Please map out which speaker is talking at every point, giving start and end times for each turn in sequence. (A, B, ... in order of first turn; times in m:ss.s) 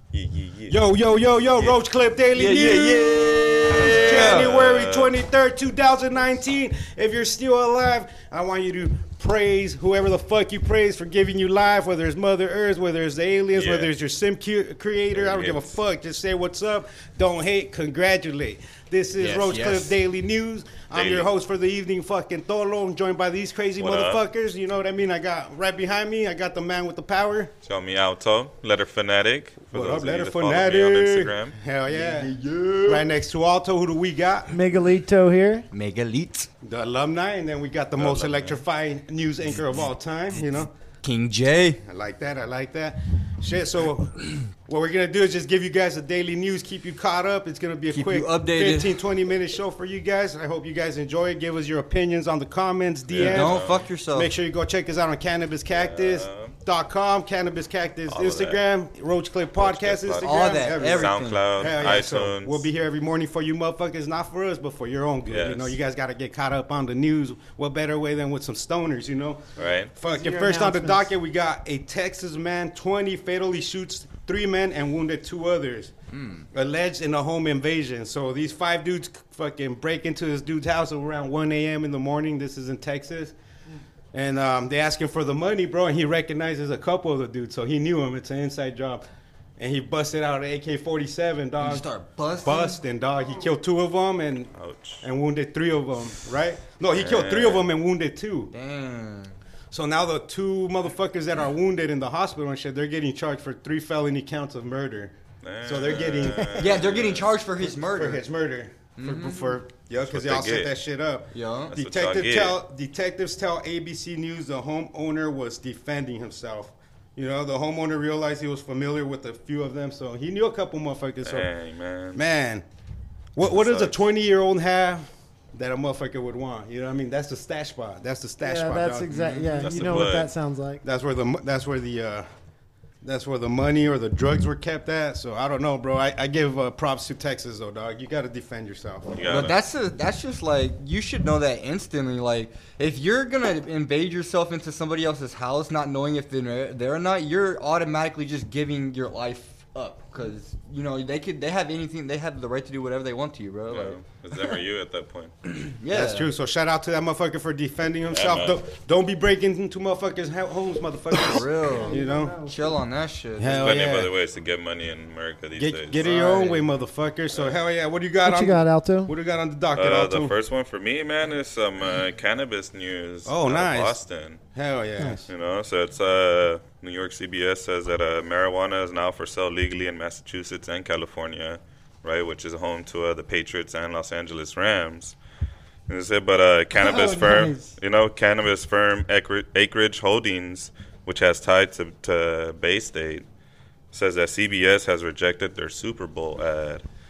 0:00.1-0:00.8 A
0:00.7-0:03.2 B
0:02.3-0:04.5 C
0:03.7-0:05.2 A
0:03.8-0:27.5 B
0:13.5-0:13.9 A
0:15.1-0:15.8 A
0:19.2-0:20.0 C
0:20.9-0:21.3 A
0:23.8-0:24.2 A
0:27.6-0:31.6 A
0:29.7-0:32.3 B
0:31.9-0:33.1 C
0:32.8-0:34.5 B
0:34.5-0:35.7 D
0:35.7-0:36.5 C
0:36.6-0:40.7 B
0:37.9-0:38.6 A
0:41.0-0:41.8 C
0:41.8-0:53.6 B
0:47.9-0:49.0 C
0:53.1-0:53.8 A
0:53.2-0:54.3 C
0:54.1-1:15.9 B
0:55.7-0:56.6 A
0:58.1-0:58.6 A
0:59.6-1:02.6 A
1:00.2-1:01.7 C
1:05.3-1:05.8 A
1:09.6-1:09.9 A
1:10.1-1:11.1 D
1:16.1-1:16.5 C
1:16.5-1:23.3 B
1:24.1-1:29.0 B
1:29.6-1:31.9 B
1:31.6-1:32.8 C
1:32.4-1:38.5 B
1:34.5-1:35.0 A
1:36.9-1:37.7 A
1:38.5-1:39.4 C
1:39.7-1:46.8 B
1:45.4-1:47.3 A
1:46.2-1:46.6 D
1:46.6-1:48.2 C
1:47.6-2:01.5 B
1:49.0-1:49.6 C
1:50.0-1:50.7 A
1:51.3-1:51.7 C
1:51.7-1:52.6 A
2:01.2-2:02.2 A
2:02.1-2:02.6 B
2:03.3-2:09.1 B
2:03.4-2:04.0 A
2:08.4-2:10.8 D
2:09.1-2:09.8 C
2:09.6-2:10.3 A
2:10.8-2:12.3 B
2:13.0-2:19.1 B
2:19.1-2:19.6 A
2:19.3-2:34.0 C
2:33.7-2:35.3 A
2:35.5-2:36.3 C
2:35.9-2:42.4 B
2:38.1-2:38.6 A
2:41.1-2:43.8 C
2:41.5-2:42.6 D
2:43.4-2:44.1 B
2:43.6-2:46.4 A
2:45.6-2:50.3 B
2:46.0-2:46.7 C
2:47.3-2:47.6 A
2:48.2-2:49.1 D
2:49.7-2:54.4 A
2:53.2-2:54.0 B
2:54.5-2:55.2 B
2:55.0-2:55.3 D
2:55.3-3:05.2 A
3:05.9-3:13.2 A
3:06.7-3:07.7 D
3:13.9-3:16.8 A